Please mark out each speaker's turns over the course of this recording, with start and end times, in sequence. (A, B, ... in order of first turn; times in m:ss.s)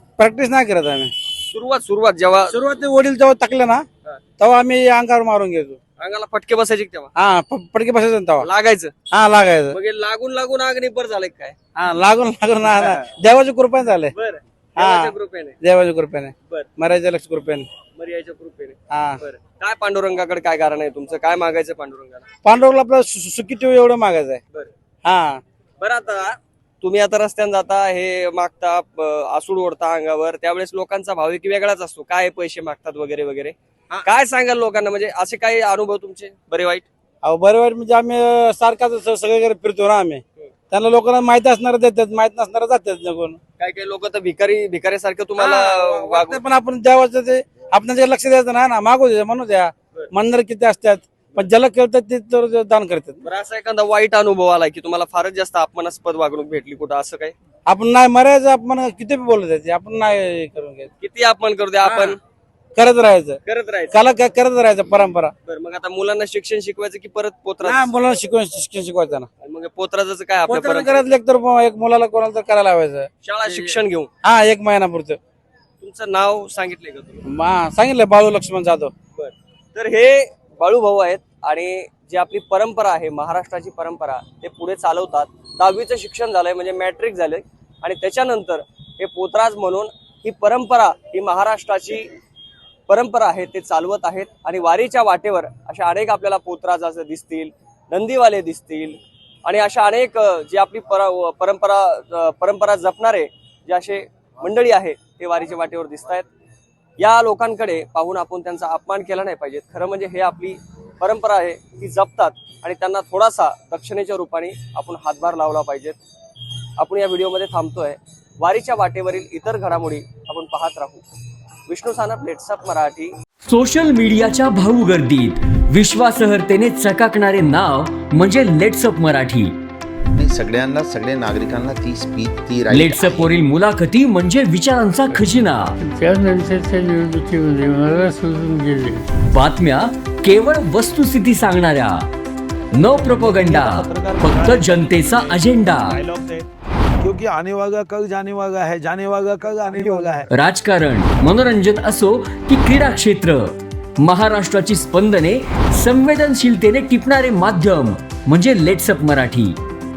0:00.2-0:01.1 A
0:01.4-0:02.5 B
0:02.5-0:03.8 A
0:04.4-0:05.8 A
0:06.0-0:07.1 B
0:07.2-0:08.5 A
0:08.4-0:08.9 B
0:09.1-0:09.8 A
0:09.7-0:11.6 B
0:11.8-0:14.1 A
0:12.6-0:13.1 B
0:14.1-0:15.6 B
0:14.8-0:17.7 A
0:18.0-0:22.3 B
0:18.9-0:19.2 A
0:22.4-0:24.4 A
0:25.0-0:25.4 A
0:25.8-0:36.9 B
0:37.2-0:43.4 A
0:43.6-0:46.4 B
0:45.4-0:53.2 A
0:53.2-0:57.4 B
0:57.7-1:00.9 A
1:01.0-1:02.2 B
1:01.8-1:02.2 A
1:02.8-1:03.4 A
1:03.4-1:04.0 B
1:03.9-1:05.3 A
1:05.5-1:07.9 B
1:07.6-1:09.3 A
1:09.4-1:11.0 B
1:10.5-1:15.2 A
1:13.2-1:14.1 B
1:15.8-1:17.3 B
1:17.3-1:18.9 A
1:19.2-1:32.1 B
1:32.9-1:46.3 B
1:47.0-1:56.0 B
1:56.8-2:01.0 B
2:01.7-2:03.1 B
2:03.5-2:09.6 C
2:10.2-2:13.3 D
2:12.7-2:15.8 C
2:15.8-2:19.0 E
2:19.3-2:22.0 C
2:22.7-2:26.0 C
2:22.9-2:26.4 F
2:27.0-2:30.3 F
2:30.3-2:39.6 C